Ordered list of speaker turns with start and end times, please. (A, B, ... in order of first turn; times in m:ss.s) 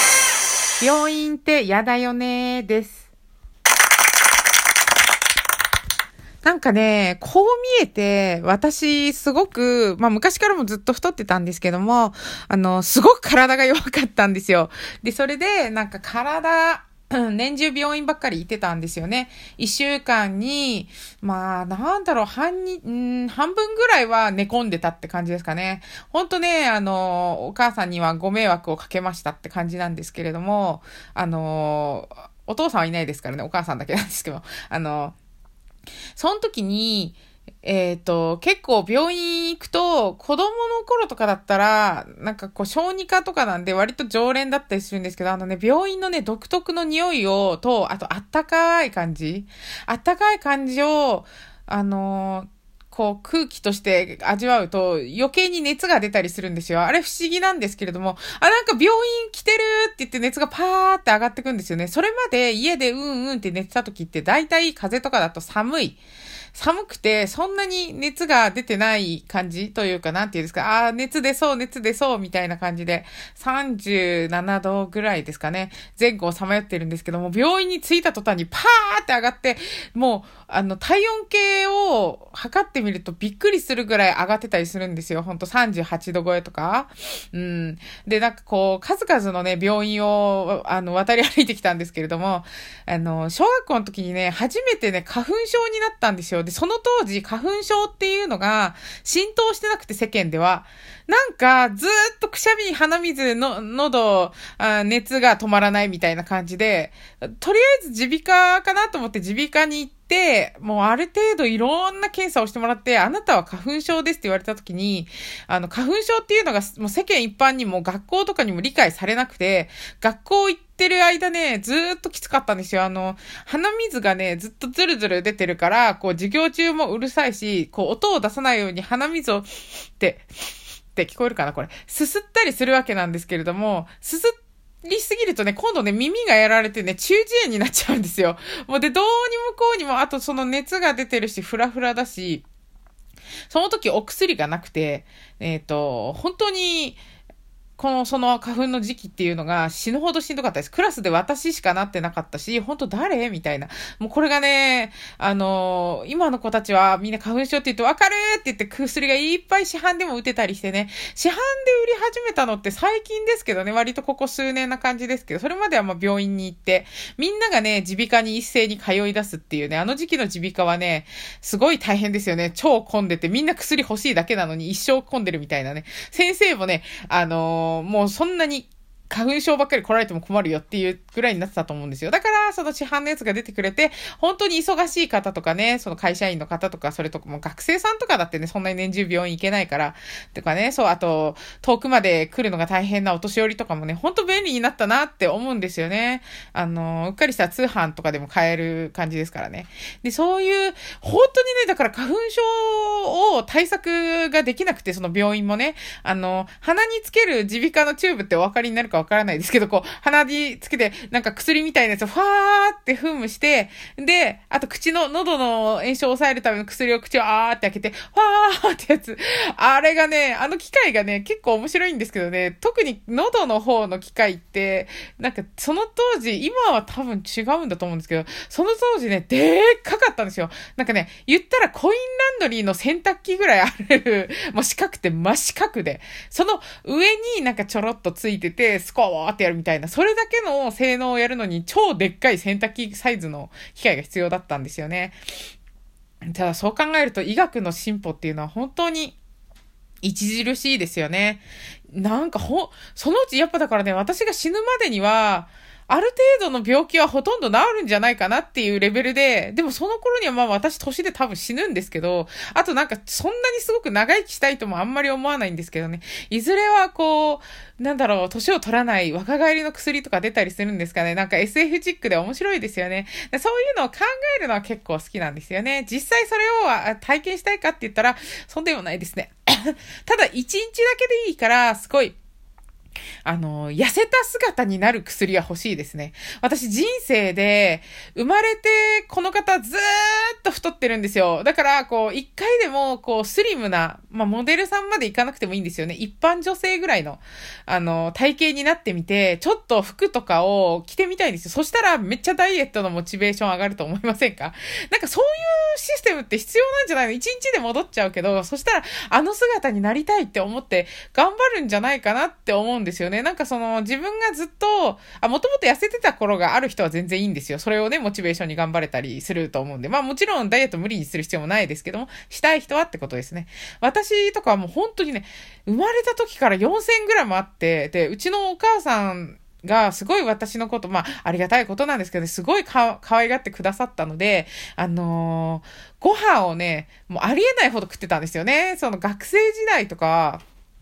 0:00.8-0:03.1 A
0:06.4-0:35.1 A
0:36.2-1:06.0 A
1:06.5-2:09.5 A
2:10.0-2:10.2 A
2:10.9-2:22.4 A
2:23.5-2:27.0 A
2:27.8-4:05.2 A
4:06.3-4:09.2 A
4:10.0-4:42.2 A
4:43.2-5:40.4 A